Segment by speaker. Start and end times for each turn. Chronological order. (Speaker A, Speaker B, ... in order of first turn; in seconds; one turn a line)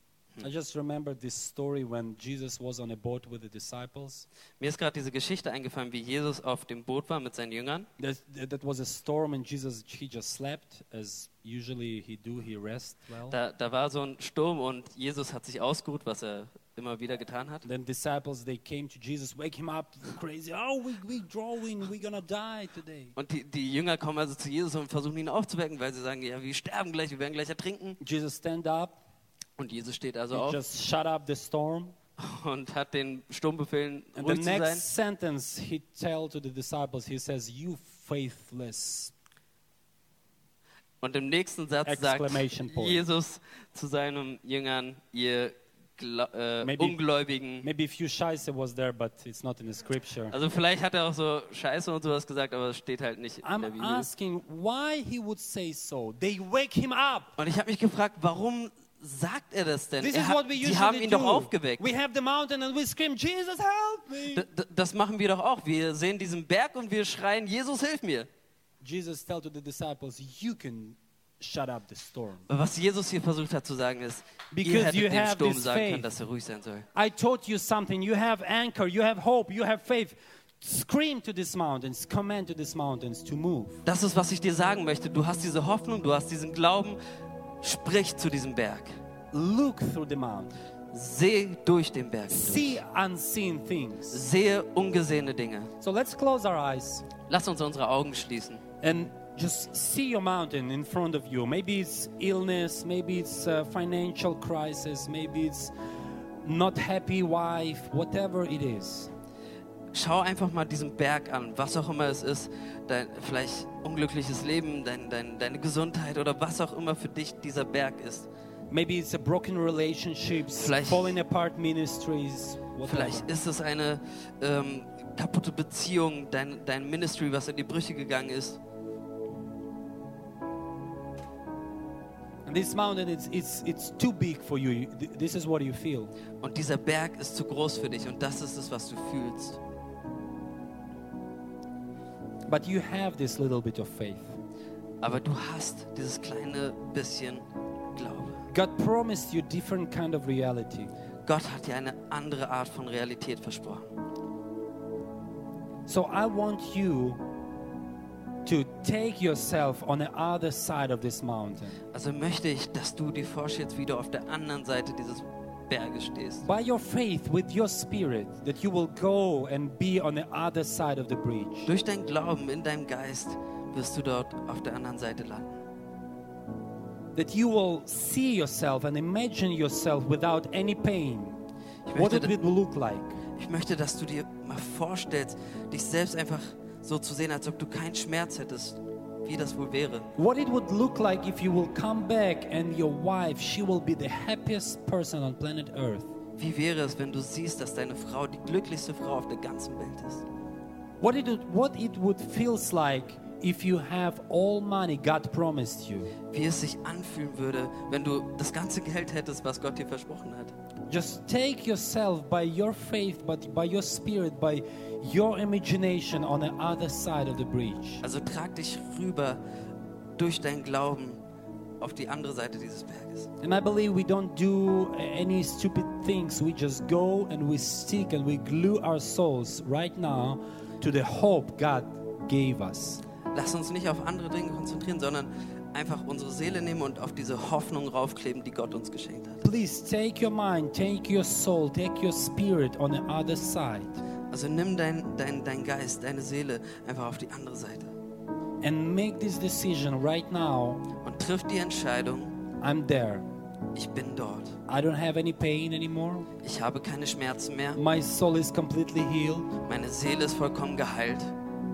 Speaker A: 0.4-4.2
Speaker B: 4.6-7.9
Speaker A: 8.0-13.3
Speaker B: 13.3-17.6
Speaker A: 17.6-23.1
Speaker B: 23.1-28.0
Speaker A: 28.0-29.0
Speaker B: 29.6-30.6
Speaker A: 30.3-31.9
Speaker B: 32.2-34.8
Speaker A: 34.1-39.1
Speaker B: 41.0-47.6
Speaker A: 41.8-43.0
Speaker A: 46.6-47.0
Speaker A: 47.6-50.3
Speaker B: 50.3-54.1
Speaker A: 53.4-57.3
Speaker B: 57.4-61.9
Speaker A: 60.0-64.4
Speaker B: 64.3-68.3
Speaker A: 68.8-72.5
Speaker B: 72.5-76.9
Speaker A: 74.5-76.1
Speaker A: 76.9-83.8
Speaker B: 83.8-87.0
Speaker B: 87.6-88.9
Speaker A: 89.3-90.6
Speaker B: 90.9-92.8
Speaker A: 92.3-94.2
Speaker B: 94.1-95.7
Speaker A: 95.8-97.0
Speaker B: 97.3-98.6
Speaker A: 98.8-105.7
Speaker A: 106.4-109.1
Speaker B: 109.9-118.3
Speaker A: 118.7-123.3
Speaker B: 120.5-121.2
Speaker B: 122.8-128.6
Speaker A: 132.4-136.1
Speaker B: 136.4-139.6
Speaker A: 142.5-144.4
Speaker B: 145.0-147.4
Speaker B: 147.9-148.4
Speaker A: 148.5-150.9
Speaker B: 151.2-153.9
Speaker A: 155.9-157.2
Speaker A: 158.4-161.8
Speaker B: 161.9-166.4
Speaker A: 166.4-171.7
Speaker B: 171.7-175.6
Speaker A: 177.2-181.4
Speaker B: 181.8-182.3
Speaker A: 181.9-183.2
Speaker B: 183.3-190.1
Speaker A: 190.2-196.1
Speaker B: 196.4-200.2
Speaker A: 201.0-206.1
Speaker B: 206.3-210.5
Speaker A: 210.9-218.0
Speaker B: 218.0-219.4
Speaker B: 220.2-221.2
Speaker B: 221.8-223.3
Speaker A: 223.4-233.0
Speaker B: 233.3-239.4
Speaker A: 239.4-244.0
Speaker B: 244.3-247.9
Speaker A: 248.6-250.8
Speaker B: 251.0-252.3
Speaker A: 252.6-253.2
Speaker B: 253.7-254.6
Speaker A: 254.7-256.3
Speaker B: 256.4-257.8
Speaker A: 257.8-259.5
Speaker B: 259.7-261.3